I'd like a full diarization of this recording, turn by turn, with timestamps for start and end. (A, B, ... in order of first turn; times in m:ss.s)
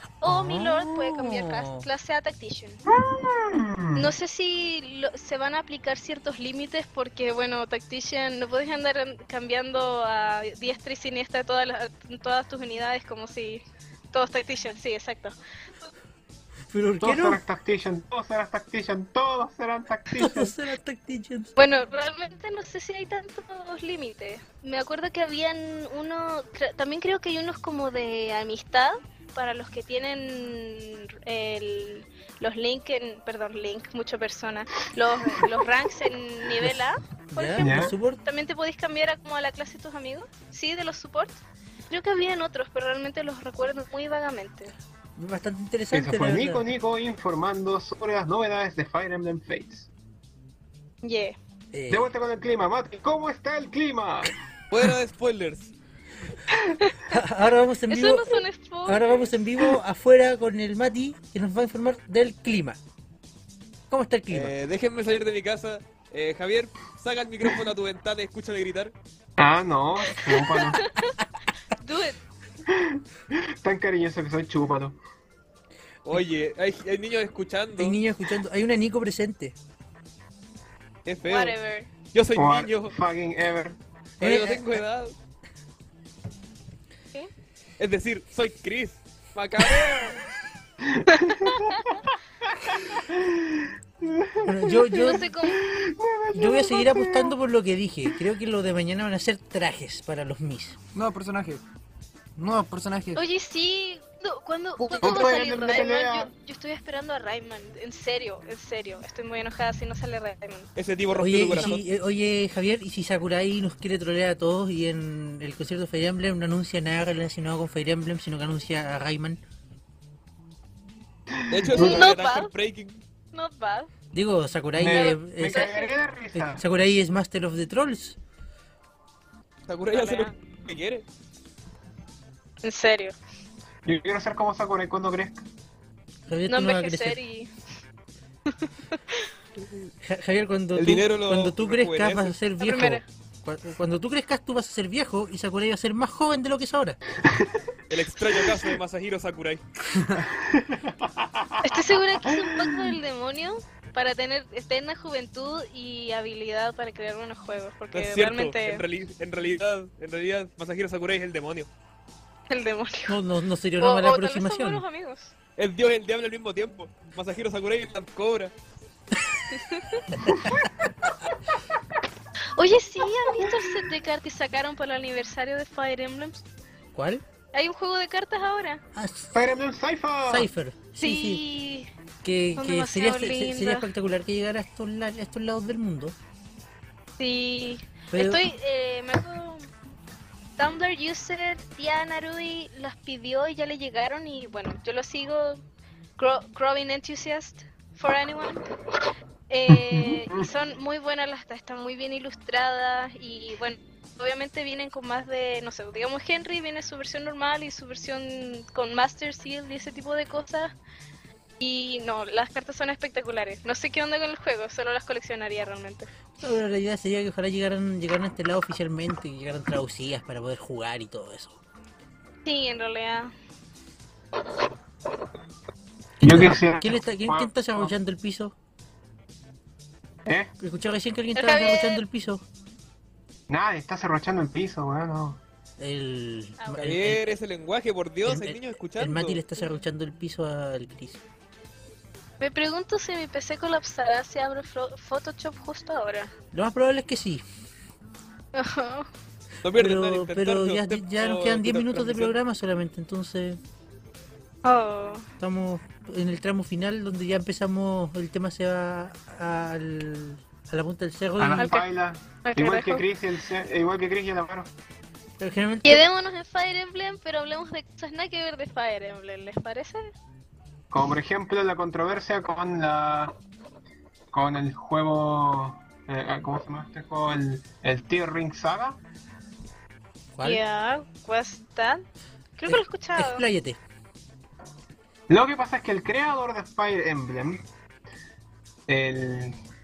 0:00.2-0:02.8 A
0:00.2-0:01.9 B
0:02.9-0:04.1 C
0:04.0-0:15.9 A
0:16.7-0:17.4 B
0:17.0-0:20.6 C
0:20.2-0:21.6 B
0:21.6-0:44.7 A
0:37.3-0:38.2 B
0:37.6-0:37.9 C
0:45.2-0:46.6 B
0:45.9-0:49.9 C
0:51.0-0:51.4 A
0:51.7-0:52.1 B
0:51.9-0:54.4 C
0:54.7-0:55.7 D
0:56.9-0:57.2 A
0:57.1-1:02.8 B
0:57.9-0:59.3 A
1:03.9-1:04.5 B
1:04.3-1:08.9 D
1:09.4-1:10.8 C
1:10.2-1:11.2 A
1:11.8-1:12.2 A
1:12.7-1:15.0 C
1:16.0-1:18.0 D
1:17.8-1:19.6 B
1:21.1-1:21.6 D
1:21.3-1:21.9 A
1:22.1-1:23.0 D
1:22.4-1:23.8 C
1:24.2-1:25.2 D
1:24.2-1:24.7 B
1:27.8-1:30.2 D
1:31.0-1:31.6 C
1:31.7-1:32.0 A
1:32.6-1:34.7 C
1:34.4-1:35.3 B
1:34.8-1:35.6 A
1:35.4-1:37.3 C
1:36.3-1:40.8 B
1:40.9-1:41.6 E
1:42.4-1:43.2 E
1:43.2-1:50.7 A
1:44.8-1:45.3 E
1:45.0-1:46.3 C
1:50.8-1:51.8 D
1:51.2-1:59.4 B
2:01.3-2:02.1 C
2:01.5-2:03.0 D
2:01.7-2:02.5 A
2:03.3-2:03.9 A
2:04.1-2:05.7 B
2:04.8-2:06.6 C
2:04.9-2:05.9 A
2:06.4-2:08.2 B
2:09.7-2:11.0 D
2:09.9-2:10.3 A
2:12.6-2:13.2 A
2:13.8-2:15.4 C
2:16.3-2:17.2 B
2:16.5-2:17.5 A
2:18.5-2:19.2 A
2:20.0-2:27.0 B
2:20.8-2:22.4 D
2:22.6-2:23.0 A
2:27.2-2:27.5 C
2:27.9-2:29.6 D
2:30.2-2:32.9 C
2:31.6-2:38.8 A
2:37.9-2:41.7 D
2:42.5-2:43.2 A
2:43.1-2:44.8 B
2:43.8-2:45.3 A
2:45.6-2:48.5 D
2:49.5-2:50.0 A
2:50.1-2:50.7 B
2:52.6-2:56.4 A
2:56.9-2:57.2 B
2:57.5-2:58.8 A
2:59.0-2:59.3 B
2:59.3-3:00.5 C
3:00.3-3:01.4 B
3:01.0-3:01.9 A
3:02.2-3:06.2 B
3:02.6-3:03.9 A
3:07.2-3:09.7 A
3:08.1-3:08.4 B
3:10.6-3:15.6 A
3:16.2-3:18.6 A
3:19.5-3:30.8 A
3:19.7-3:20.5 C
3:31.6-3:36.1 A
3:36.4-3:41.6 B
3:42.4-3:43.3 A
3:46.2-3:48.5 B
3:46.2-3:48.0 C
3:50.3-3:50.5 C
3:50.6-3:52.4 B
3:51.4-3:52.0 A
3:53.5-3:55.4 C
3:55.8-3:57.2 B
3:56.6-3:56.9 A
3:56.8-3:59.4 D
3:58.3-4:01.2 B
4:02.4-4:06.3 A
4:06.5-4:07.4 B
4:08.5-4:09.1 A
4:09.6-4:12.4 D
4:09.8-4:13.6 B
4:14.6-4:15.3 A
4:15.4-4:21.7 B
4:21.4-4:24.7 C
4:21.6-4:21.9 A
4:22.4-4:23.0 A
4:25.4-4:26.0 B
4:25.8-4:30.1 A
4:30.9-4:33.3 C
4:34.3-4:39.0 C
4:40.4-4:40.6 B
4:40.4-4:42.1 A
4:42.6-4:43.4 A
4:42.7-4:43.8 B
4:45.3-4:47.7 C
4:48.9-4:49.6 C